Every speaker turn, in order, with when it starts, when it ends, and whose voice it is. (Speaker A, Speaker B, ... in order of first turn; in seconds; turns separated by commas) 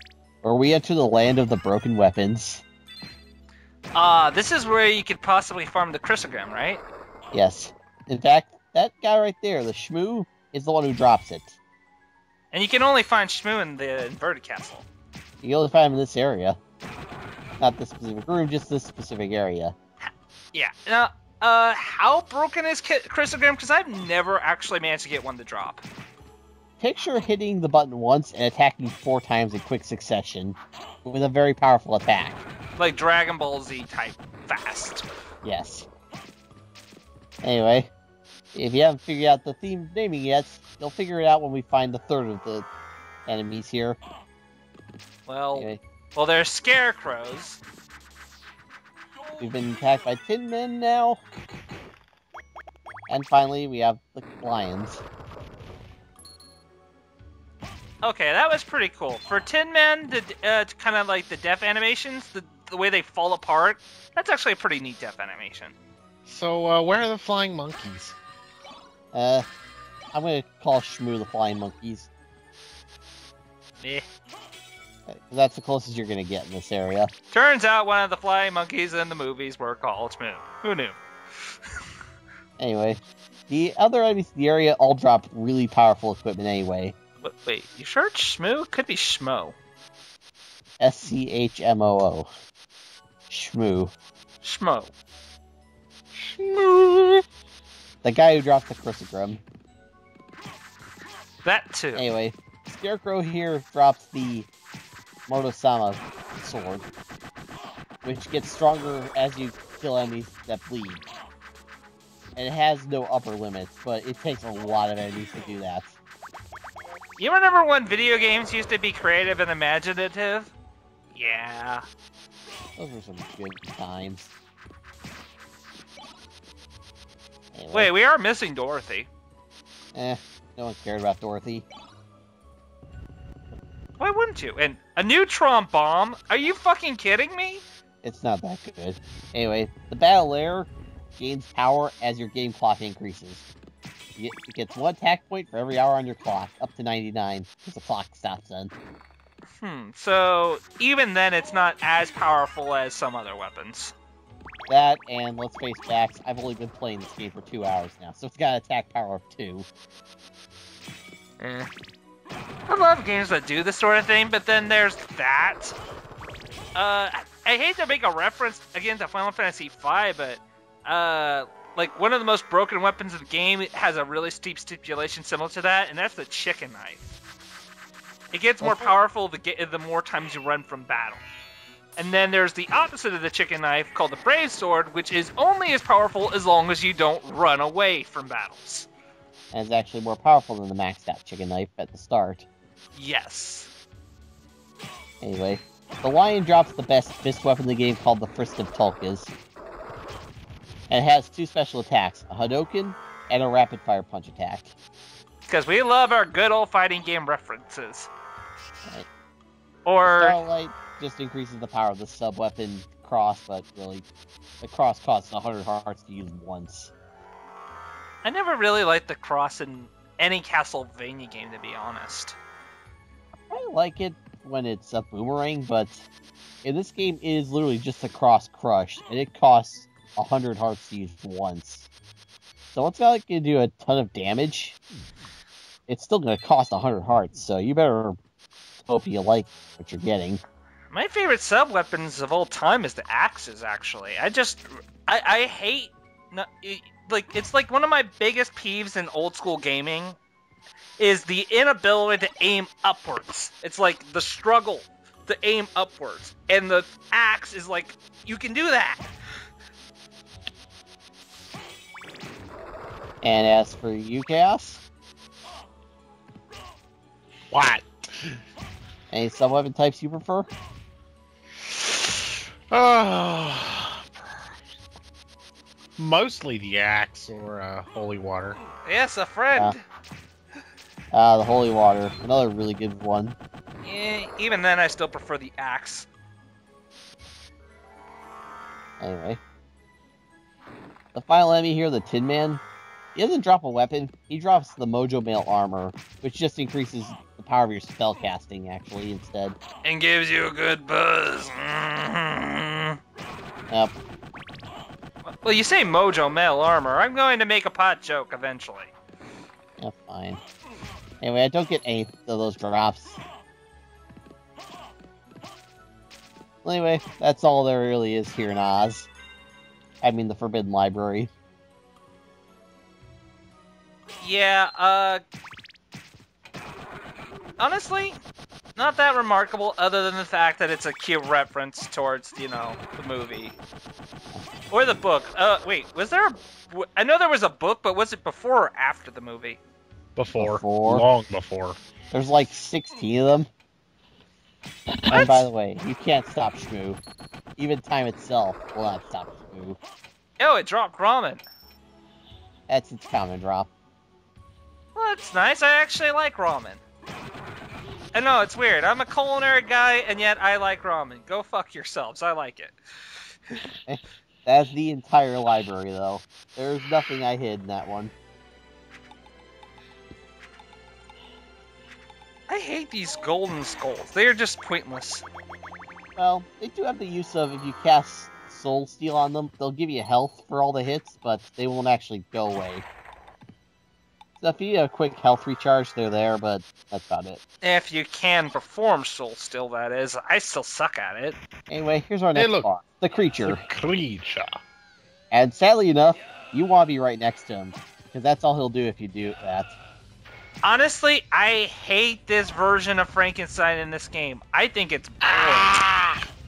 Speaker A: 0.4-2.6, Speaker B: 3.9-6.8, Speaker A: 7.3-11.6, Speaker B: 12.5-14.8, Speaker A: 15.4-16.6, Speaker A: 17.6-19.7, Speaker B: 20.5-25.8, Speaker A: 26.8-32.4, Speaker B: 32.8-35.0, Speaker A: 35.4-35.9, Speaker A: 37.4-37.9, Speaker A: 38.5-42.7, Speaker A: 43.3-44.0, Speaker B: 45.2-47.6, Speaker A: 45.5-45.8, Speaker A: 49.4-51.2, Speaker A: 53.1-55.0, Speaker B: 58.0-65.7, Speaker C: 66.2-68.2, Speaker A: 69.1-69.5, Speaker A: 70.1-72.1, Speaker B: 73.8-74.0, Speaker A: 75.1-77.1, Speaker B: 77.3-81.5, Speaker A: 82.6-86.9, Speaker B: 87.2-89.5, Speaker A: 90.8-92.3, Speaker A: 93.3-93.9, Speaker B: 94.4-94.9, Speaker C: 96.1-97.2, Speaker A: 98.0-99.4, Speaker B: 101.4-102.0, Speaker A: 101.9-104.5, Speaker A: 105.3-106.8, Speaker A: 108.0-111.0, Speaker A: 112.3-116.0, Speaker B: 117.2-120.5, Speaker B: 121.1-121.8, Speaker A: 122.8-124.3, Speaker A: 127.5-127.9, Speaker B: 127.7-129.1, Speaker A: 129.9-131.7, Speaker B: 134.0-137.6, Speaker A: 138.0-143.4, Speaker A: 144.2-148.7, Speaker B: 149.6-153.9, Speaker A: 154.7-159.7, Speaker B: 161.4-161.7, Speaker B: 162.7-165.8, Speaker B: 166.7-177.1, Speaker B: 178.3-181.2, Speaker A: 178.6-178.9, Speaker B: 182.0-188.9, Speaker A: 189.5-192.4, Speaker B: 192.9-193.7, Speaker A: 195.2-199.3, Speaker A: 200.9-204.7, Speaker B: 205.5-208.1, Speaker B: 209.8-210.4, Speaker A: 210.0-214.1, Speaker A: 214.6-216.9, Speaker B: 218.2-222.4, Speaker A: 223.5-226.1, Speaker A: 226.6-231.9, Speaker A: 232.7-234.8, Speaker A: 235.9-238.2, Speaker A: 238.8-240.4, Speaker B: 240.9-250.2, Speaker B: 251.0-259.1, Speaker A: 263.2-264.8, Speaker C: 267.5-268.3, Speaker A: 269.1-270.5, Speaker C: 272.7-274.0, Speaker C: 276.0-278.6, Speaker B: 278.8-279.8, Speaker A: 281.1-283.4, Speaker B: 283.8-286.1, Speaker A: 289.0-289.4, Speaker A: 291.1-292.6, Speaker A: 293.1-299.6, Speaker B: 299.8-303.0, Speaker B: 305.2-308.9, Speaker A: 309.8-310.4, Speaker A: 311.2-313.2, Speaker A: 316.6-319.1, Speaker A: 320.0-321.3, Speaker B: 324.2-325.2, Speaker B: 327.6-328.2, Speaker B: 328.8-333.6, Speaker B: 334.7-339.6, Speaker C: 340.1-341.8, Speaker A: 340.4-341.1, Speaker A: 342.1-343.5, Speaker A: 345.1-347.0, Speaker B: 345.1-345.5, Speaker A: 347.6-349.8, Speaker B: 350.4-351.4, Speaker A: 352.7-353.7, Speaker B: 354.9-356.8, Speaker B: 358.1-362.8, Speaker A: 363.9-368.1, Speaker B: 372.5-375.2, Speaker A: 376.2-382.9, Speaker A: 384.4-387.4, Speaker B: 387.6-391.4, Speaker A: 391.7-393.6, Speaker C: 392.3-392.7, Speaker C: 393.4-394.6, Speaker A: 395.3-399.8, Speaker B: 400.6-405.7, Speaker C: 405.3-406.2